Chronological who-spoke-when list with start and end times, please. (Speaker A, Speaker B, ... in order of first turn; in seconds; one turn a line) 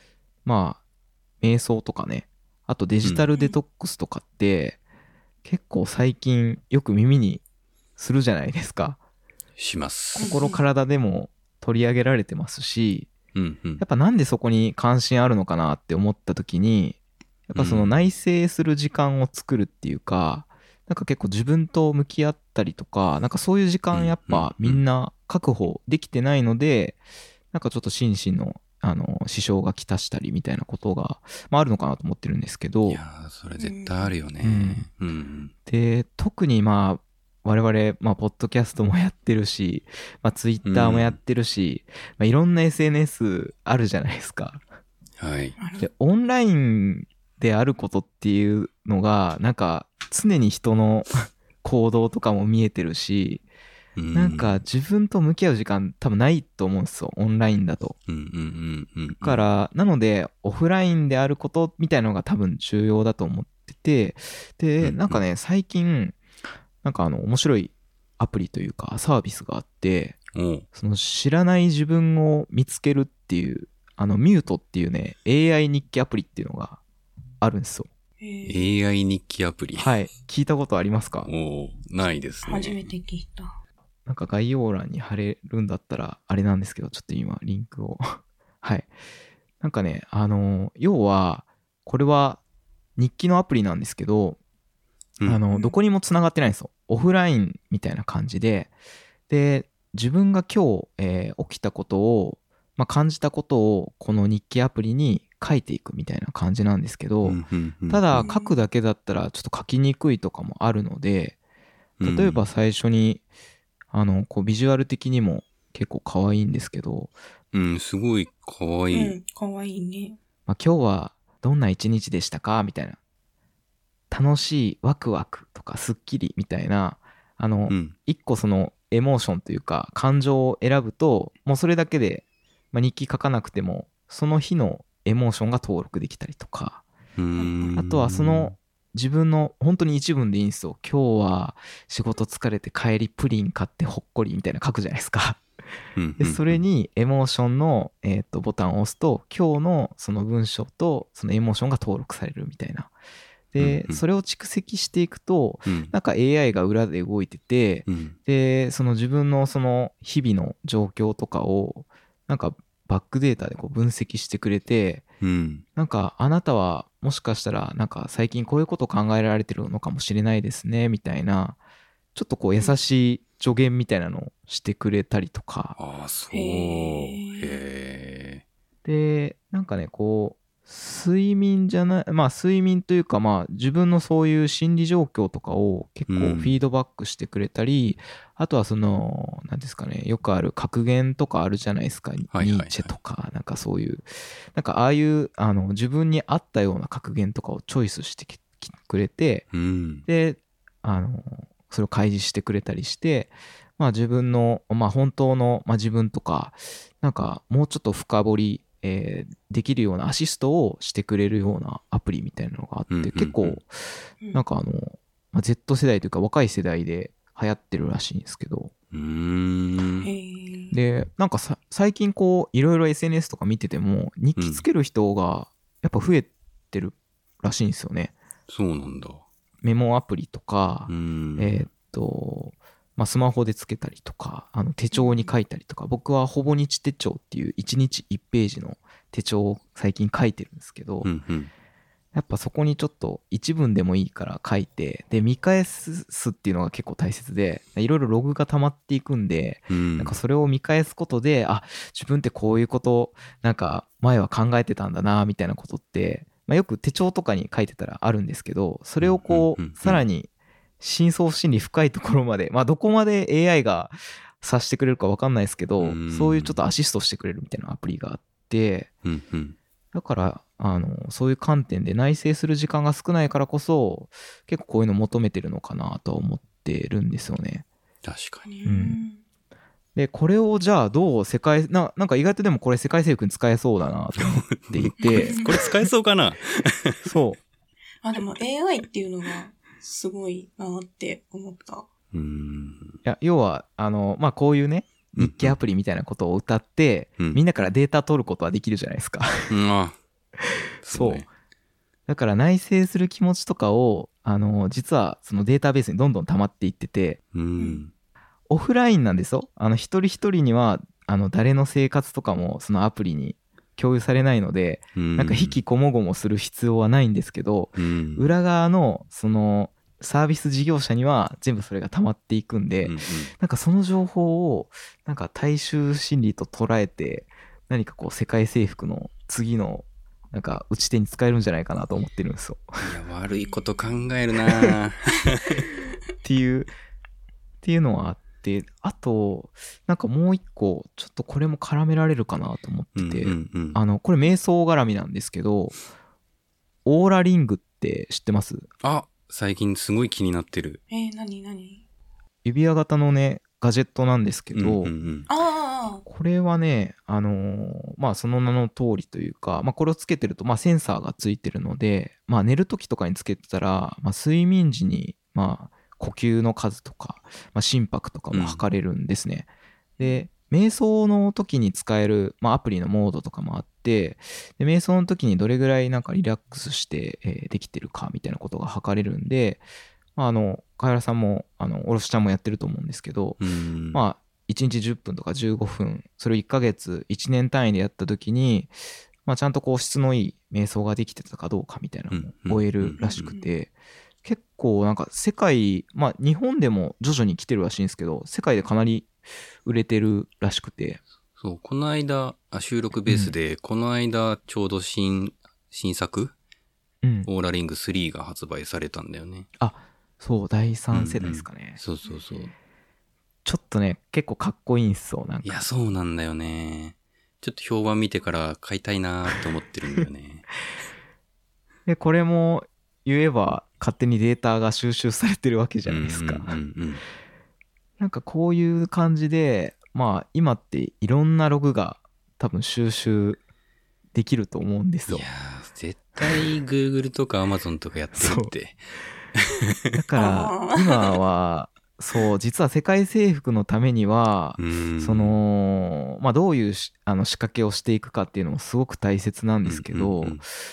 Speaker A: 0.4-0.8
Speaker A: 1.4-4.8
Speaker B: 3.0-3.3
Speaker A: 5.4-7.4
Speaker A: 8.0-9.0
Speaker B: 9.6-10.2
Speaker C: 10.2-10.6
Speaker A: 10.2-13.1
Speaker B: 13.3-13.8
Speaker A: 13.8-17.0
Speaker A: 17.5-27.0
Speaker B: 17.5-17.9
Speaker B: 23.9-24.8
Speaker A: 27.5-33.0
Speaker B: 32.9-35.5
Speaker C: 33.6-34.1
Speaker A: 34.4-34.9
Speaker A: 35.6-44.6
Speaker B: 40.6-41.2
Speaker B: 45.2-45.5
Speaker C: 45.6-45.9
Speaker A: 45.8-53.4
Speaker B: 54.0-54.6
Speaker A: 54.1-58.0
Speaker B: 58.1-59.5
Speaker A: 59.2-66.2
Speaker B: 64.8-65.2
Speaker A: 66.8-70.2
Speaker B: 70.3-70.7
Speaker A: 70.7-76.8
Speaker A: 77.4-77.9
Speaker C: 78.2-78.6
Speaker B: 78.4-79.9
Speaker A: 79.7-81.3
Speaker B: 81.2-82.8
Speaker C: 82.5-83.5
Speaker A: 84.0-88.9
Speaker A: 89.6-92.4
Speaker A: 93.0-94.4
Speaker A: 95.2-98.7
Speaker C: 95.5-95.8
Speaker A: 99.3-111.3
Speaker B: 107.2-108.3
Speaker C: 108.1-108.6
Speaker B: 112.0-112.4
Speaker A: 112.0-113.2
Speaker A: 113.9-117.1
Speaker B: 117.5-119.2
Speaker C: 118.9-120.2
Speaker A: 120.5-123.0
Speaker A: 124.1-136.8
Speaker B: 127.7-127.9
Speaker B: 137.2-138.5
Speaker C: 137.3-137.8
Speaker A: 137.7-145.4
Speaker B: 145.9-146.6
Speaker A: 146.2-152.9
Speaker A: 153.5-165.0
Speaker B: 153.6-154.0
Speaker B: 155.7-155.9
Speaker B: 157.9-158.1
Speaker B: 165.2-165.6
Speaker A: 165.8-171.6
Speaker A: 172.1-175.8
Speaker B: 175.8-178.4
Speaker C: 176.3-177.6
Speaker A: 178.8-199.4
Speaker B: 186.1-186.6
Speaker B: 192.3-192.9
Speaker B: 199.5-200.1
Speaker A: 200.1-213.8
Speaker B: 212.9-213.6
Speaker A: 214.3-218.7
Speaker B: 218.9-220.1
Speaker C: 220.0-220.8
Speaker A: 220.7-228.1
Speaker B: 224.4-224.7
Speaker B: 228.5-229.2
Speaker A: 229.6-241.1
Speaker B: 230.9-231.7
Speaker C: 234.9-235.3
Speaker B: 241.0-241.5
Speaker A: 242.1-260.3
Speaker B: 249.7-250.2
Speaker B: 259.0-260.0
Speaker A: 260.8-268.9
Speaker B: 265.8-266.6
Speaker B: 269.0-269.6
Speaker A: 269.9-277.6
Speaker B: 278.0-278.4
Speaker C: 278.4-279.2
Speaker A: 278.6-279.0
Speaker A: 279.9-285.5
Speaker B: 284.2-287.1
Speaker C: 285.0-285.4
Speaker A: 287.0-287.4
Speaker C: 288.0-291.9
Speaker B: 292.1-293.0
Speaker A: 293.0-299.5
Speaker B: 295.2-295.6
Speaker B: 299.5-300.0
Speaker B: 300.8-301.3
Speaker A: 300.9-301.3
Speaker A: 302.1-307.2
Speaker B: 307.3-307.9
Speaker A: 308.5-332.6
Speaker B: 314.9-315.6
Speaker B: 317.8-318.3
Speaker B: 322.8-323.3
Speaker B: 332.8-335.6
Speaker C: 333.3-334.0
Speaker A: 336.2-336.7
Speaker A: 337.6-345.8
Speaker B: 342.9-343.8
Speaker A: 346.8-348.7
Speaker B: 348.8-350.8
Speaker C: 350.9-351.8
Speaker A: 352.4-354.9
Speaker B: 354.5-355.3
Speaker C: 355.3-356.0
Speaker A: 356.1-379.6
Speaker B: 368.3-368.7
Speaker A: 380.1-383.4
Speaker B: 383.4-384.0
Speaker A: 383.9-393.7
Speaker B: 392.1-393.3
Speaker C: 393.0-393.5
Speaker A: 394.2-399.1
Speaker A: 399.6-401.0
Speaker B: 401.4-406.3
Speaker A: 403.1-403.3
Speaker A: 407.0-407.3
Speaker B: 407.2-409.5
Speaker A: 409.6-411.8
Speaker B: 410.9-412.5
Speaker A: 413.4-415.6
Speaker B: 415.4-420.4
Speaker A: 421.9-426.6
Speaker B: 425.9-427.0
Speaker A: 428.0-433.4
Speaker A: 434.1-435.2
Speaker B: 435.1-439.7
Speaker A: 436.2-436.4
Speaker A: 438.1-438.5
Speaker A: 439.9-450.4
Speaker C: 440.1-441.2
Speaker B: 444.6-445.4
Speaker B: 449.6-450.4